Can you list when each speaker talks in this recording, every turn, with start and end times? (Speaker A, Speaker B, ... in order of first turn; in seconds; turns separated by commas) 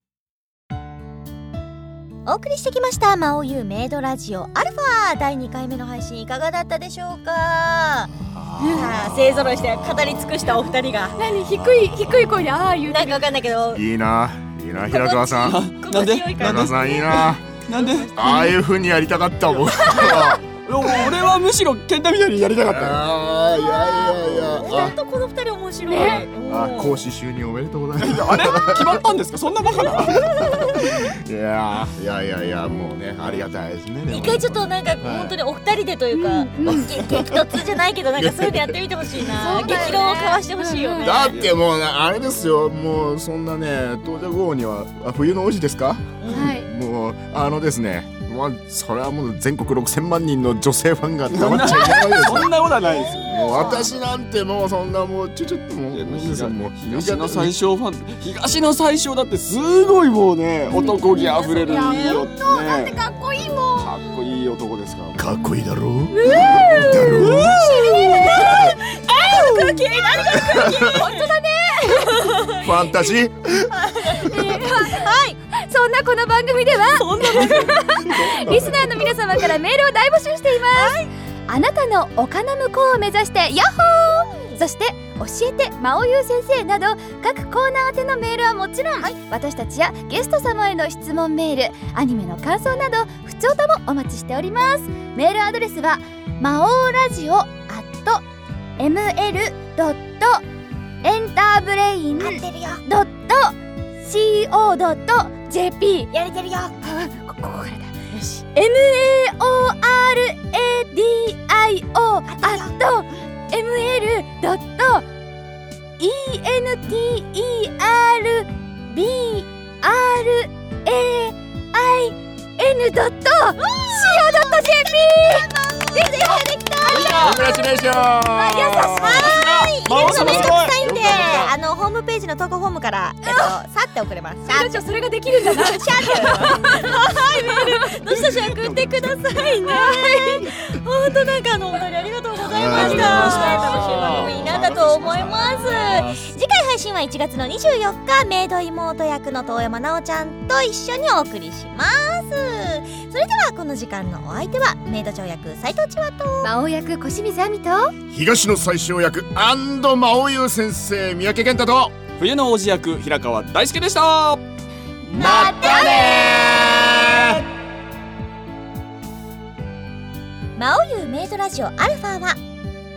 Speaker A: 2.2-11.2, Speaker B: 8.3-9.5, Speaker C: 8.6-8.9, Speaker C: 11.2-13.2, Speaker A: 12.8-13.8, Speaker B: 13.7-15.7, Speaker A: 14.9-17.1, Speaker D: 15.3-18.3, Speaker B: 16.3-20.4, Speaker A: 17.7-18.6, Speaker D: 19.4-23.1, Speaker B: 22.7-24.9, Speaker A: 23.6-27.1, Speaker C: 25.9-26.3, Speaker B: 26.4-29.0, Speaker D: 28.0-30.3, Speaker B: 29.8-35.3, Speaker A: 30.4-30.8, Speaker A: 34.1-41.4, Speaker C: 36.1-37.2, Speaker B: 38.2-38.7, Speaker C: 39.2-41.2, Speaker B: 41.0-52.7, Speaker A: 46.2-46.5, Speaker C: 46.3-46.7, Speaker D: 51.3-53.8, Speaker A: 51.8-52.2, Speaker A: 52.8-53.9, Speaker B: 53.2-57.5, Speaker C: 53.4-53.8, Speaker D: 55.9-63.0, Speaker A: 60.7-62.4, Speaker C: 60.8-64.0, Speaker D: 63.7-65.2, Speaker A: 63.9-64.4, Speaker B: 65.2-67.6, Speaker C: 66.1-72.5, Speaker A: 66.2-71.3, Speaker D: 67.2-67.5, Speaker B: 70.5-70.9, Speaker A: 72.2-72.7, Speaker B: 72.6-73.7, Speaker A: 73.7-75.4, Speaker C: 74.2-98.2, Speaker A: 76.8-78.0, Speaker D: 77.2-79.1, Speaker A: 80.7-81.1, Speaker A: 84.0-84.6, Speaker C: 98.8-100.4, Speaker C: 101.0-106.1, Speaker A: 102.2-102.8, Speaker A: 106.1-106.7, Speaker C: 106.7-108.0, Speaker A: 108.1-108.4, Speaker C: 108.5-115.0, Speaker A: 112.3-112.7, Speaker C: 116.0-127.3, Speaker A: 123.5-156.5, Speaker B: 126.9-131.5, Speaker D: 127.0-127.4, Speaker D: 129.2-131.4, Speaker C: 133.2-133.5, Speaker C: 134.5-138.0, Speaker C: 139.6-140.5, Speaker B: 142.4-143.9, Speaker D: 142.6-146.3, Speaker C: 156.4-157.9, Speaker B: 158.1-162.0, Speaker D: 162.2-164.4, Speaker D: 165.0-166.2, Speaker A: 165.1-167.3, Speaker B: 165.6-167.3, Speaker A: 170.6-172.4